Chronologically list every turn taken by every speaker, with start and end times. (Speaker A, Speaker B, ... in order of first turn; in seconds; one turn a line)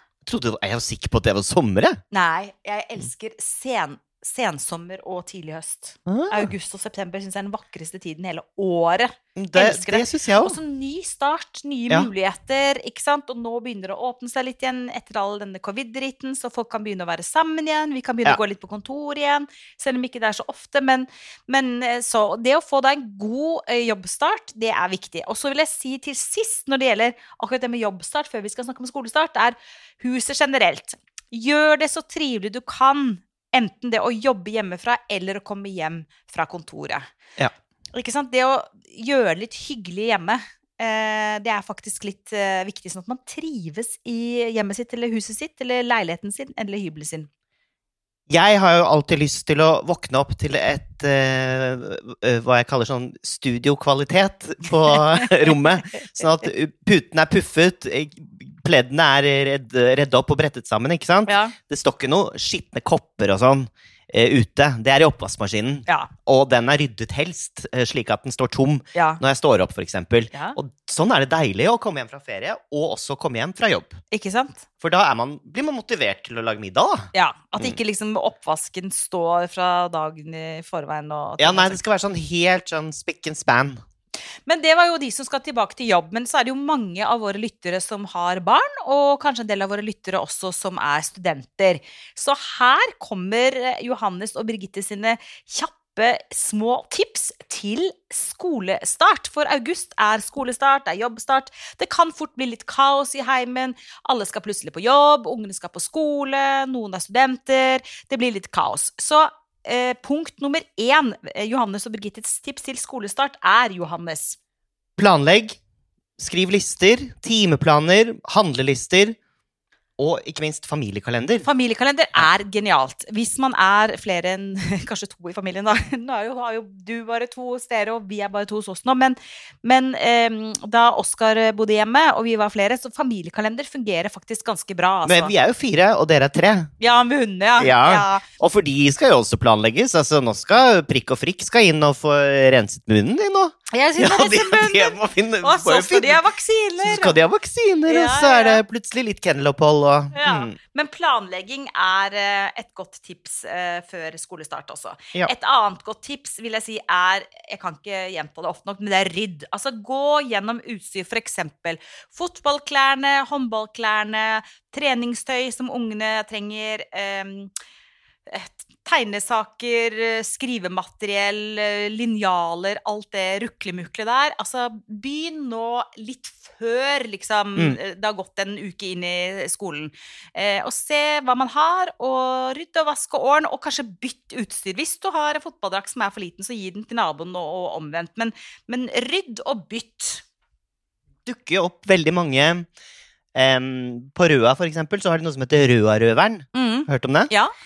Speaker A: 0.2-2.0
Speaker B: 2.1-37.1
Speaker A: 6.1-6.5
Speaker A: 9.4-10.6
Speaker B: 37.9-47.3
Speaker A: 48.3-74.0
Speaker B: 61.3-61.5
Speaker B: 69.0-69.2
Speaker B: 74.1-74.6
Speaker A: 74.8-77.1
Speaker B: 77.1-81.8
Speaker A: 81.4-83.8
Speaker B: 84.5-114.4
Speaker A: 115.0-115.6
Speaker A: 116.2-119.2
Speaker A: 120.0-121.5
Speaker B: 121.4-135.3
Speaker A: 135.1-136.7
Speaker B: 136.8-138.2
Speaker A: 137.6-146.2
Speaker B: 143.7-147.2
Speaker A: 146.8-150.6
Speaker B: 147.9-148.6
Speaker B: 150.1-167.5
Speaker B: 168.3-190.2
Speaker A: 191.3-192.7
Speaker A: 193.3-197.3
Speaker B: 196.5-197.5